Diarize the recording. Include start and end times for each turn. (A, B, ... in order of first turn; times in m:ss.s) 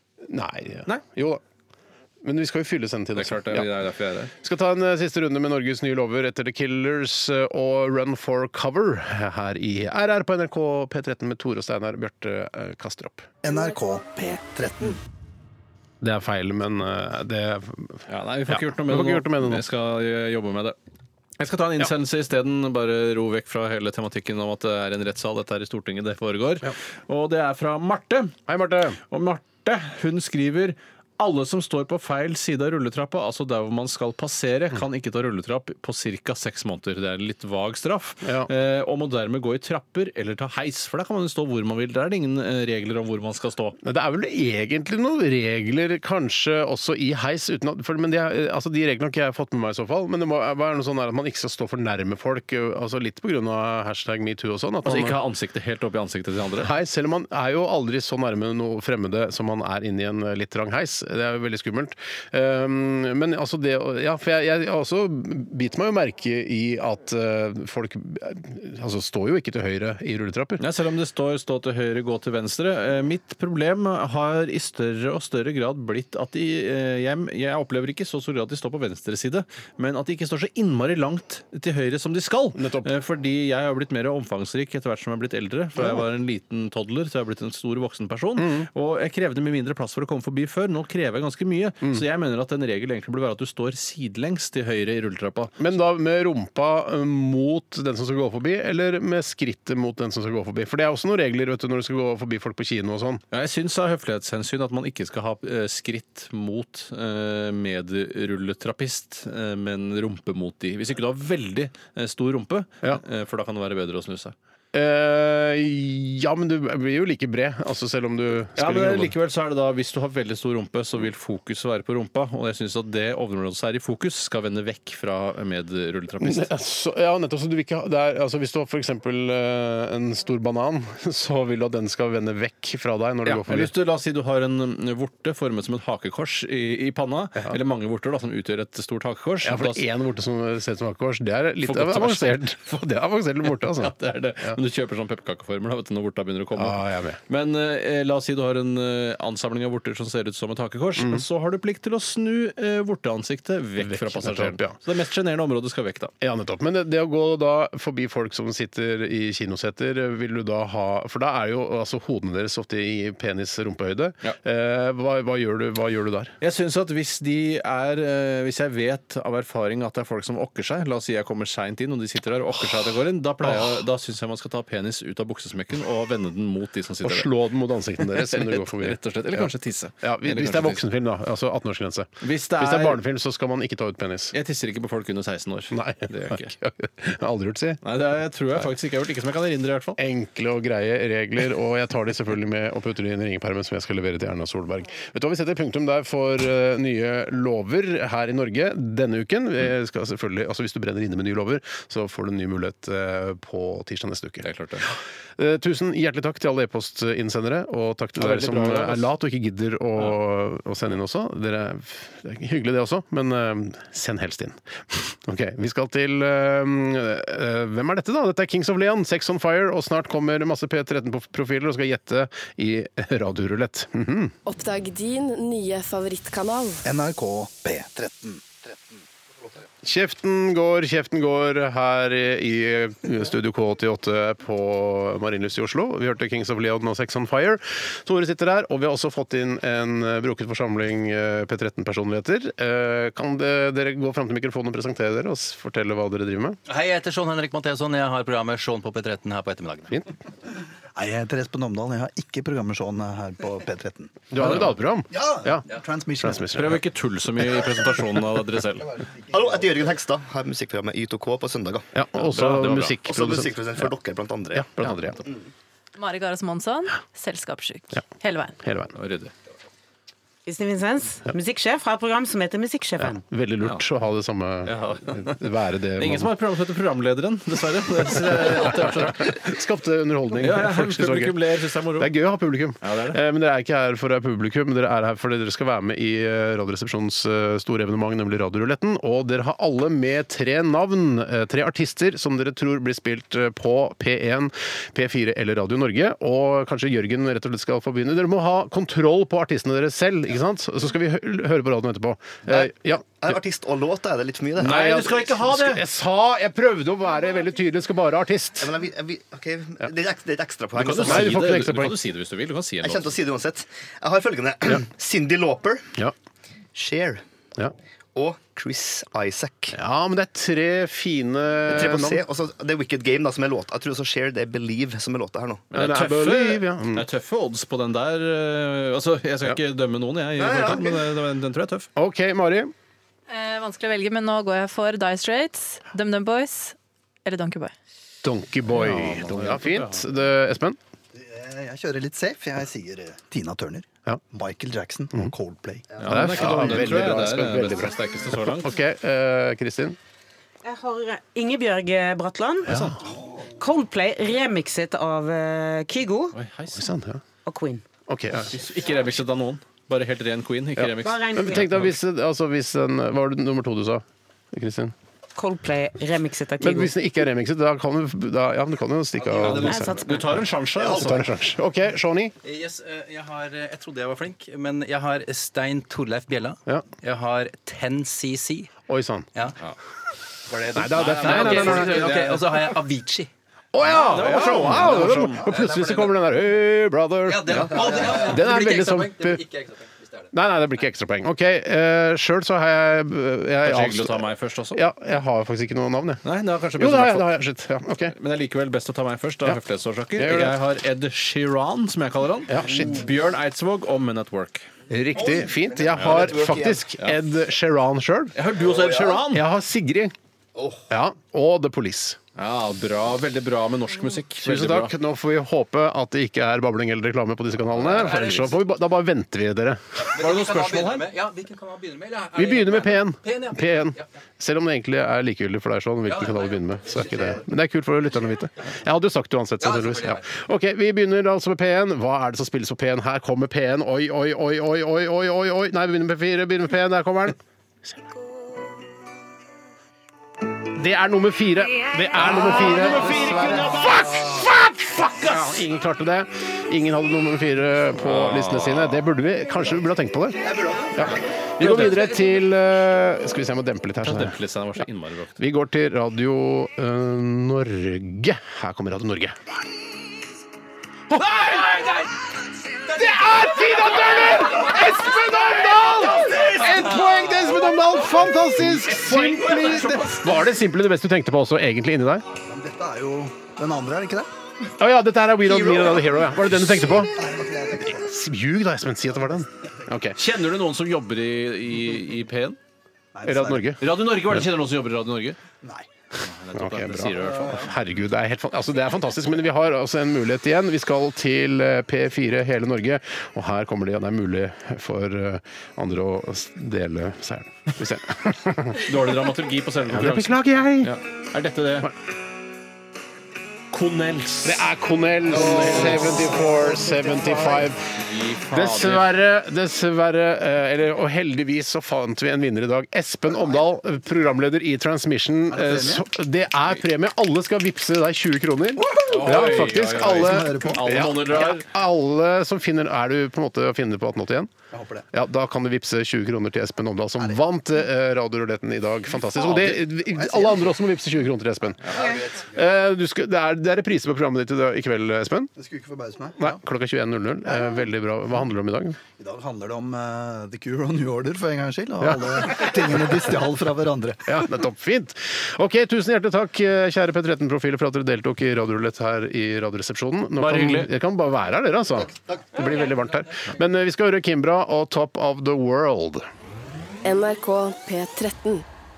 0:00.2-0:01.4 A
0:02.2-0:13.3 A
0:03.2-0:04.3 B
0:13.4-0:15.0 C
0:16.0-0:19.6 A
0:18.1-0:20.8 B
0:21.4-0:28.4 B
0:28.5-0:29.0 A
0:29.1-0:43.8 B
0:38.2-0:38.5 A
0:43.8-0:55.2 A
0:54.8-0:56.7 B
0:56.6-1:10.6 A
1:10.6-1:35.6 B
1:22.6-1:22.9 A
1:25.8-1:26.0 A
1:28.4-1:28.7 A
1:35.6-1:43.2 A
1:43.3-1:54.4 B
1:54.7-1:59.1 A
1:58.6-2:06.5 B
2:06.2-2:13.7 A
2:13.2-2:19.8 B
2:19.4-2:24.6 A
2:21.6-2:22.6 B
2:23.4-2:36.1 B
2:26.6-2:27.2 A
2:31.0-2:31.2 A
2:33.8-2:34.8 A
2:36.2-2:46.3 A
2:46.4-2:57.3 B
2:53.4-2:53.7 A
2:57.0-3:04.4 A
2:58.0-3:00.8 B
3:02.2-3:03.0 B
3:04.3-3:06.5 B
3:05.7-3:07.8 A
3:07.8-3:10.0 B
3:10.0-3:44.4 A
3:24.4-3:24.9 B
3:28.2-3:29.1 B
3:44.4-3:46.8 D
3:46.8-3:49.0 C
3:49.8-4:06.6 A
4:06.7-4:10.0 E
4:11.0-4:14.4 C
4:14.3-4:15.6 A
4:14.4-4:14.7 B
4:15.1-4:16.5 C
4:16.2-4:16.8 A
4:16.5-4:18.9 B
4:19.3-4:21.9 F
4:21.9-4:23.9 A
4:22.2-4:23.0 B
4:23.0-4:24.7 F
4:24.5-4:25.2 A
4:26.0-4:28.6 G
4:28.6-4:28.9 A
4:28.9-4:29.3 B
4:30.4-4:33.2 H
4:33.0-4:36.3 A
4:34.6-4:35.4 B
4:36.0-4:39.4 B
4:38.1-5:03.4 A
4:40.4-4:42.1 B
4:42.8-4:43.2 B
5:02.4-5:05.0 F
5:04.6-5:05.8 B
5:04.6-5:08.7 A
5:08.6-5:11.4 F
5:10.7-5:13.1 B
5:10.9-5:12.0 A
5:12.8-5:15.9 F
5:16.7-5:17.2 F
5:18.1-5:19.8 F
5:19.7-5:22.2 A
5:21.7-5:25.7 F
5:25.7-5:31.9 B
5:25.7-5:27.0 A
5:30.4-5:31.1 F
5:32.0-5:32.7 A
5:33.3-5:37.7 G
5:38.2-5:40.8 A
5:38.7-5:40.0 B
5:41.1-5:46.0 C
5:46.0-5:48.7 B
5:46.0-5:50.0 A
5:50.6-5:52.7 H
5:52.7-5:53.0 A
5:52.7-5:53.0 B
5:53.6-5:56.4 H
5:56.3-5:56.9 B
5:56.7-5:57.2 A
5:57.4-5:57.8 H
5:58.1-5:58.5 A
5:58.3-6:01.9 B
6:00.8-6:05.0 A
6:01.0-6:01.7 H
6:05.4-6:06.9 H
6:06.6-6:12.3 A
6:09.2-6:10.3 E
6:09.4-6:11.2 B
6:09.7-6:10.0 H
6:12.4-6:18.7 E
6:18.9-6:19.3 A
6:20.5-6:22.3 B
6:20.7-6:23.3 E
6:20.7-6:22.7 A
6:23.7-6:29.4 A
6:23.9-6:25.4 B
6:24.1-6:26.2 E
6:27.2-6:30.3 E
6:30.3-6:36.2 A
6:33.6-6:34.8 B
6:36.2-6:37.3 B
6:36.8-6:38.1 A
6:38.1-6:44.7 B
6:40.2-6:40.6 A
6:42.5-6:43.0 A
6:44.9-6:48.3 A
6:45.1-6:46.9 F
6:46.0-6:46.3 B
6:48.4-6:49.4 B
6:48.6-6:49.2 F
6:49.3-6:50.2 A
6:50.6-6:50.8 F
6:50.9-6:52.2 A
6:52.4-6:54.9 B
6:54.4-7:00.1 A
6:57.7-6:58.3 B
7:00.0-7:04.0 E
7:00.1-7:01.1 B
7:02.3-7:17.4 A
7:06.1-7:07.4 E
7:09.6-7:10.2 E
7:20.6-7:34.8 A
7:22.2-7:24.3 B
7:28.0-7:29.0 B
7:31.6-7:32.1 B
7:34.0-7:35.4 B
7:35.4-7:39.6 A
7:41.1-7:42.0 A
7:42.9-7:52.3 A
7:48.8-7:50.1 B
7:49.8-7:50.0 E
7:52.4-7:54.3 C
7:54.8-7:57.2 A
7:56.6-7:58.1 C
7:57.8-8:00.2 A
8:00.2-8:02.6 B
8:03.1-8:03.7 C
8:03.2-8:04.5 A
8:03.8-8:05.4 B
8:06.2-8:07.7 B
8:06.6-8:18.9 A
8:18.8-8:21.9 B
8:19.8-8:21.0 A
8:23.7-8:24.6 B
8:24.4-8:27.9 A
8:25.5-8:27.0 C
8:25.7-8:26.1 B
8:27.9-8:29.1 B
8:28.5-8:44.5 A
8:35.5-8:36.0 C
8:39.0-8:41.7 B
8:40.0-8:41.0 C
8:44.7-8:45.0 C
8:45.1-8:55.5 A
8:49.3-8:50.7 C
8:52.0-8:52.4 C
8:55.6-8:56.6 C
8:56.4-8:59.0 A
8:59.2-9:04.4 C
9:02.0-9:02.6 A
9:04.3-9:16.3 A
9:10.4-9:10.9 B
9:12.2-9:12.5 F
9:17.0-9:18.7 D